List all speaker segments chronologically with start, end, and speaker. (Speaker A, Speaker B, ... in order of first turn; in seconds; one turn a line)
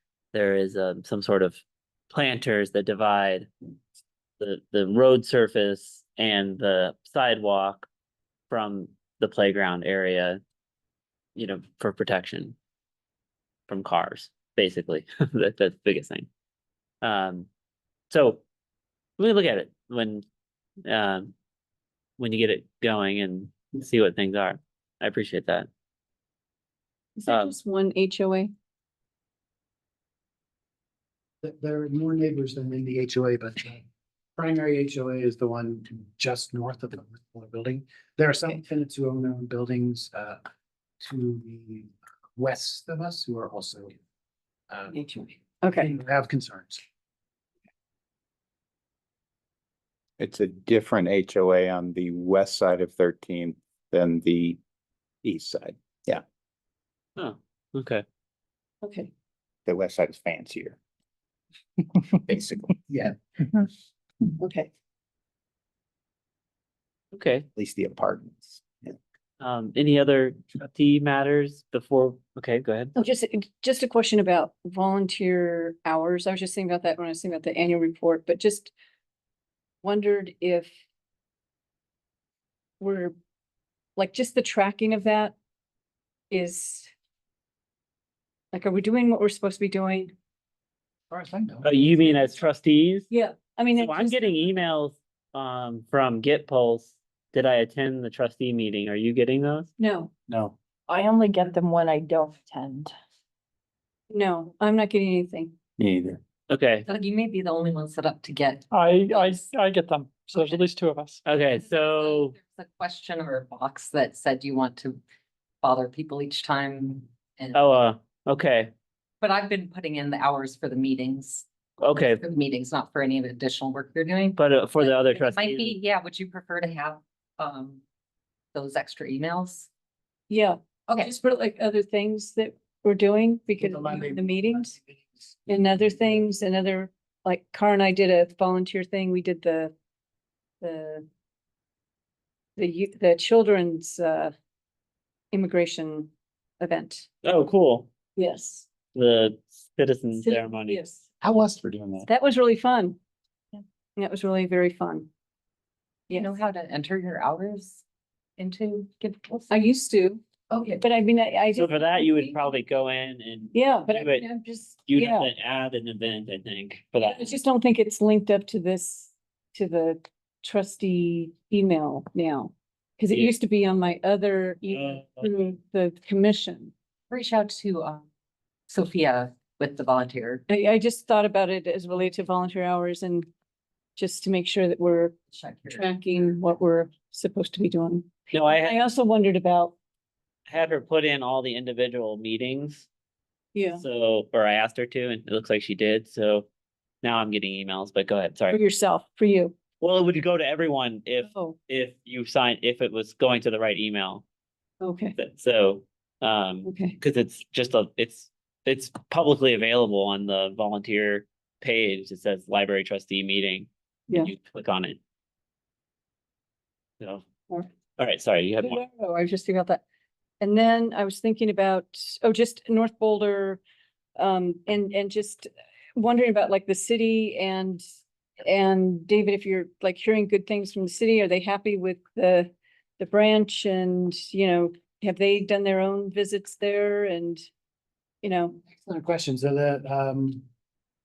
Speaker A: 0.3-3.5
Speaker A: 4.4-7.9
Speaker A: 8.5-10.4
Speaker A: 11.3-12.5
Speaker A: 13.7-16.3
Speaker A: 17.0-17.5
Speaker A: 18.1-18.4
Speaker A: 19.2-20.2
Speaker A: 20.8-21.3
Speaker A: 22.2-25.7
Speaker B: 27.2-28.5
Speaker A: 27.3-27.5
Speaker C: 31.4-33.8
Speaker C: 34.4-40.4
Speaker C: 41.0-43.9
Speaker C: 44.7-45.0
Speaker B: 44.9-45.9
Speaker C: 45.7-46.8
Speaker D: 50.2-54.6
Speaker D: 55.2-56.2
Speaker A: 57.2-58.0
Speaker B: 58.8-59.1
Speaker D: 59.6-60.8
Speaker D: 62.2-62.8
Speaker B: 64.4-64.7
Speaker A: 67.1-67.5
Speaker D: 67.5-68.9
Speaker A: 69.4-72.9
Speaker B: 73.0-78.7
Speaker B: 79.8-80.7
Speaker B: 82.8-83.1
Speaker B: 84.0-85.3
Speaker B: 86.3-86.9
Speaker B: 88.5-90.1
Speaker C: 91.1-92.3
Speaker A: 91.6-93.1
Speaker B: 93.1-94.4
Speaker A: 93.8-99.7
Speaker B: 99.8-100.1
Speaker E: 100.9-102.9
Speaker B: 104.1-105.5
Speaker D: 105.8-106.2
Speaker A: 106.5-106.9
Speaker F: 106.8-109.2
Speaker G: 108.7-111.2
Speaker F: 110.3-110.6
Speaker A: 111.2-112.3
Speaker F: 111.6-115.0
Speaker F: 115.6-117.7
Speaker A: 117.5-118.7
Speaker F: 119.2-127.8
Speaker A: 121.8-122.2
Speaker A: 124.4-125.8
Speaker F: 128.5-129.7
Speaker B: 130.3-134.8
Speaker F: 130.9-131.1
Speaker C: 133.6-135.2
Speaker B: 135.5-139.7
Speaker B: 140.6-141.0
Speaker B: 142.6-144.3
Speaker B: 145.3-147.1
Speaker A: 147.2-147.9
Speaker B: 148.2-148.7
Speaker A: 148.9-150.8
Speaker B: 150.2-151.1
Speaker C: 151.2-152.1
Speaker B: 152.0-153.0
Speaker B: 154.0-155.1
Speaker F: 156.1-157.8
Speaker F: 158.4-159.5
Speaker B: 159.5-160.2
Speaker F: 160.5-160.8
Speaker B: 160.8-162.4
Speaker A: 161.5-164.2
Speaker B: 163.5-165.3
Speaker A: 164.8-167.3
Speaker B: 167.0-176.7
Speaker A: 174.7-175.3
Speaker F: 177.1-178.0
Speaker F: 178.7-180.4
Speaker B: 180.5-183.3
Speaker B: 184.0-185.2
Speaker F: 185.3-185.8
Speaker B: 185.7-189.7
Speaker A: 188.3-188.8
Speaker A: 190.5-192.9
Speaker B: 193.5-193.8
Speaker A: 193.7-196.5
Speaker A: 197.0-198.6
Speaker B: 198.5-199.5
Speaker A: 199.8-204.2
Speaker B: 201.2-201.6
Speaker B: 204.8-205.1
Speaker A: 205.2-215.0
Speaker B: 206.6-206.9
Speaker A: 218.0-218.8
Speaker B: 218.6-219.8
Speaker B: 220.4-223.6
Speaker B: 224.2-227.8
Speaker B: 228.4-237.4
Speaker B: 238.2-238.6
Speaker C: 238.7-240.4